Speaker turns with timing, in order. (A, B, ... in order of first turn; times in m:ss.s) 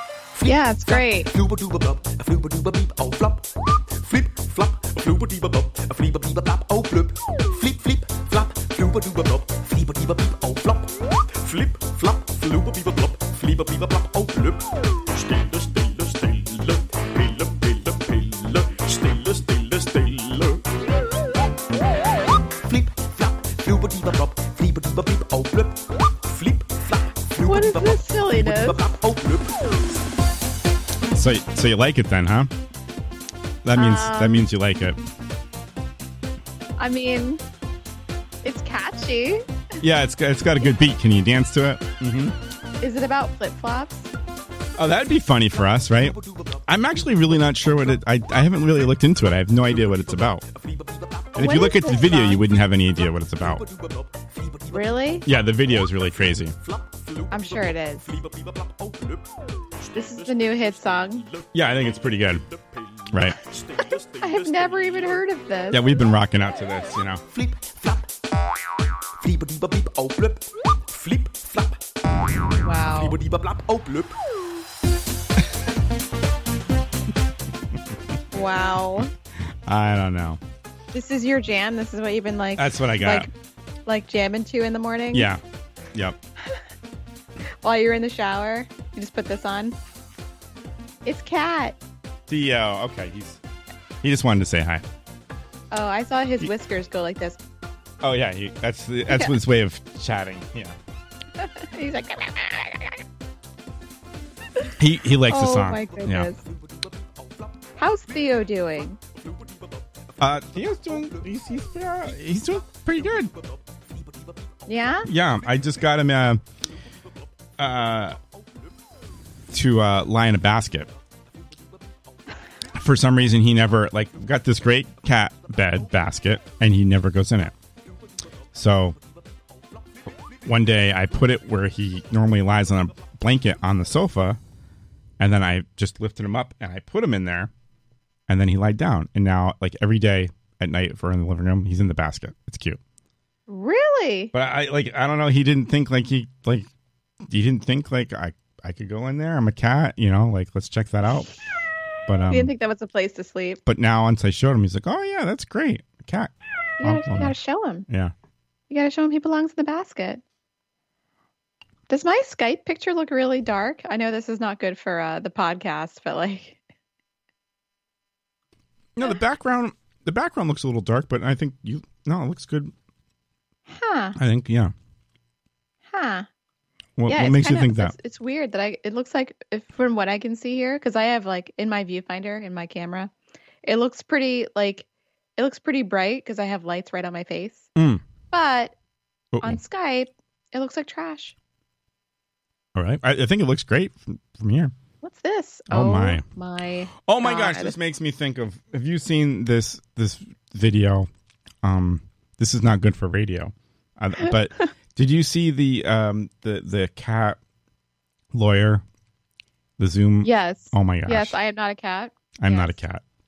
0:00.3-0:20.6 A
0:00.4-0:01.3 B
0:22.6-0:30.0 A
0:27.4-0:28.9 B
0:31.1-0:32.5 C
0:33.6-0:35.0 C
0:33.8-0:34.4 B
0:36.8-0:37.4 B
0:38.4-0:39.4 B
0:39.8-0:42.4 C
0:42.8-0:44.1 B
0:44.8-0:46.2 C
0:45.9-0:48.0 A
0:46.7-0:50.4 C
0:49.6-0:51.7 A
0:51.4-0:53.6 C
0:51.4-0:52.4 B
0:53.4-0:55.2 A
0:54.7-0:55.3 B
0:55.2-0:56.6 C
0:56.6-1:05.7 A
0:57.3-0:58.2 B
1:00.0-1:01.3 B
1:01.5-1:02.4 C
1:03.1-1:03.4 C
1:04.2-1:05.8 B
1:05.7-1:07.2 C
1:07.2-1:08.1 A
1:09.2-1:14.1 A
1:12.6-1:13.2 B
1:18.3-1:19.1 B
1:19.7-1:20.4 C
1:20.9-1:23.3 B
1:22.6-1:23.3 C
1:23.9-1:25.3 B
1:25.1-1:25.4 C
1:25.9-1:26.2 C
1:27.6-1:29.8 B
1:31.0-1:31.8 B
1:32.3-1:33.4 C
1:34.0-1:34.8 C
1:35.7-1:37.4 B
1:38.0-1:40.8 C
1:39.1-1:39.4 B
1:41.4-1:43.0 B
1:44.8-1:46.3 C
1:45.3-1:46.4 B
1:45.9-1:55.9 A
1:47.8-1:49.0 B
1:50.2-1:53.3 C
1:54.7-1:55.1 B
1:55.0-1:56.4 C
1:57.6-1:58.2 C
1:57.6-1:58.7 A
1:59.5-2:00.9 C
2:02.7-2:07.5 C
2:08.5-2:09.0 C
2:09.7-2:10.5 A
2:10.4-2:14.4 C
2:15.2-2:17.5 C
2:18.3-2:22.8 C
2:23.5-2:24.3 B
2:24.3-2:26.7 C
2:27.2-2:31.3 C
2:32.1-2:32.5 C
2:32.3-2:33.6 B
2:33.7-2:37.4 C
2:36.8-2:37.9 B
2:37.9-2:38.1 C
2:38.7-2:40.2 B
2:41.9-2:46.6 B
2:49.0-2:52.7 C
2:53.7-2:54.2 B
2:54.2-2:54.7 C
2:55.9-2:56.3 B
2:57.0-2:58.0 C
2:57.1-3:03.1 B
3:03.6-3:04.9 B
3:05.4-3:07.7 B
3:07.8-3:08.0 C
3:08.3-3:08.8 B
3:09.3-3:09.6 C
3:09.4-3:11.4 B
3:12.8-3:14.7 C
3:15.0-3:17.8 B
3:15.7-3:16.2 C
3:17.1-3:21.1 C
3:21.6-3:27.4 C
3:28.3-3:28.8 C
3:29.8-3:31.4 C
3:30.2-3:32.8 B
3:32.4-3:33.0 C